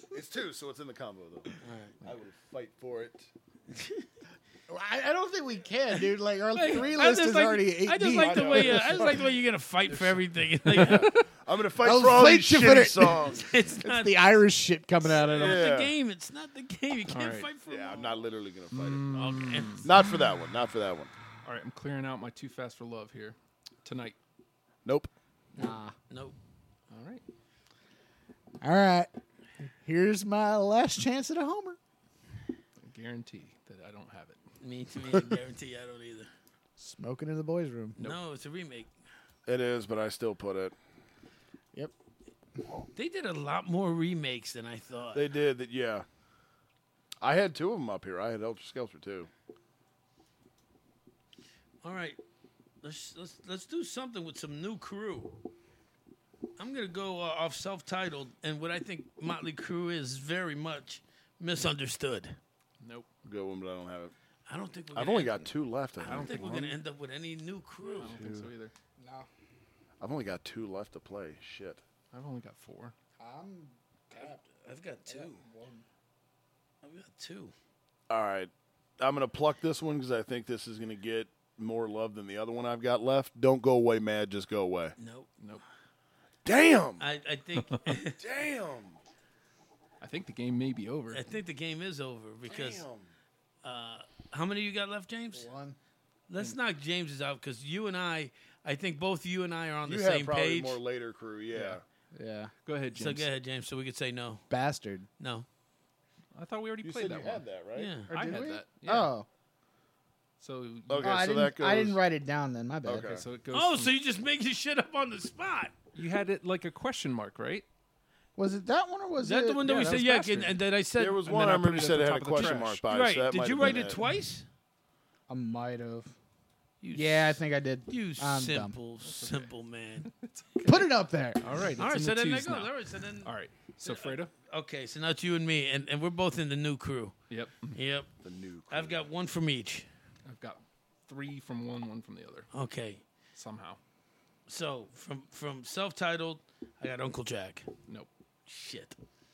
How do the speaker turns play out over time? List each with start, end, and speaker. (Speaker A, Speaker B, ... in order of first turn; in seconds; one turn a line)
Speaker A: 0.1-3.3
Speaker B: 1.6-1.9
Speaker B: 3.7-4.0
Speaker C: 4.7-9.2
Speaker B: 6.5-11.1
Speaker A: 8.1-9.2
Speaker A: 9.9-13.5
Speaker D: 10.7-11.2
Speaker C: 11.8-15.7
Speaker B: 13.2-14.3
Speaker B: 15.0-18.2
Speaker A: 15.2-15.9
Speaker D: 17.1-17.5
Speaker A: 17.7-19.1
Speaker D: 18.7-19.9
Speaker B: 19.1-19.9
Speaker A: 19.8-21.1
Speaker D: 21.4-24.1
Speaker A: 24.8-25.1
Speaker B: 25.5-26.4
Speaker C: 25.6-25.9
Speaker D: 26.9-27.2
Speaker C: 28.6-29.1
Speaker C: 29.8-31.8
Speaker D: 32.8-34.4
Speaker B: 34.6-36.3
Speaker C: 36.8-38.0
Speaker B: 38.0-38.9
Speaker A: 39.5-40.7
Speaker B: 42.9-45.3
Speaker A: 45.1-46.0
Speaker A: 47.2-49.3
Speaker B: 51.8-52.2
Speaker B: 52.8-55.4
Speaker B: 56.6-62.4
Speaker D: 62.8-63.1
Speaker A: 63.2-64.1
Speaker B: 64.5-68.2
Speaker A: 64.9-66.7
Speaker D: 66.0-66.7
Speaker A: 68.0-68.5
Speaker D: 68.0-68.7
Speaker C: 69.0-69.3
Speaker A: 70.0-71.8
Speaker D: 72.1-72.9
Speaker C: 73.2-74.4
Speaker B: 74.1-75.4
Speaker C: 75.0-75.8
Speaker B: 76.8-77.5
Speaker A: 78.1-84.9
Speaker B: 85.0-85.3
Speaker A: 86.4-87.1
Speaker B: 87.0-88.2
Speaker A: 88.2-89.0
Speaker D: 90.0-91.2
Speaker B: 91.1-92.8
Speaker A: 92.5-93.1
Speaker B: 93.6-95.5
Speaker C: 95.3-95.8
Speaker B: 96.3-100.8
Speaker A: 99.8-101.8
Speaker C: 102.1-102.5
Speaker D: 102.6-103.3
Speaker B: 102.9-104.5
Speaker C: 104.5-105.1
Speaker B: 105.2-105.5
Speaker D: 106.3-107.4
Speaker A: 106.8-107.9
Speaker B: 107.7-108.1
Speaker D: 108.1-109.1
Speaker C: 108.1-109.3
Speaker D: 110.4-111.2
Speaker A: 110.9-112.0
Speaker C: 111.0-113.2
Speaker A: 112.8-113.2
Speaker D: 113.1-113.9
Speaker B: 113.5-115.7
Speaker D: 115.9-117.7
Speaker C: 118.3-120.4
Speaker B: 119.2-121.2
Speaker D: 119.6-120.5
Speaker A: 121.0-124.0
Speaker D: 121.2-122.8
Speaker B: 122.4-124.5
Speaker C: 125.3-126.1
Speaker B: 126.8-130.1
Speaker C: 126.9-128.7
Speaker D: 129.0-134.3
Speaker C: 130.6-131.4
Speaker B: 131.8-133.3
Speaker B: 133.8-137.2
Speaker D: 137.3-137.8
Speaker B: 137.7-138.1
Speaker A: 138.2-139.1
Speaker B: 138.7-139.9
Speaker D: 140.2-142.5
Speaker B: 142.5-143.0
Speaker D: 143.3-143.8
Speaker B: 144.5-147.7
Speaker B: 148.4-149.0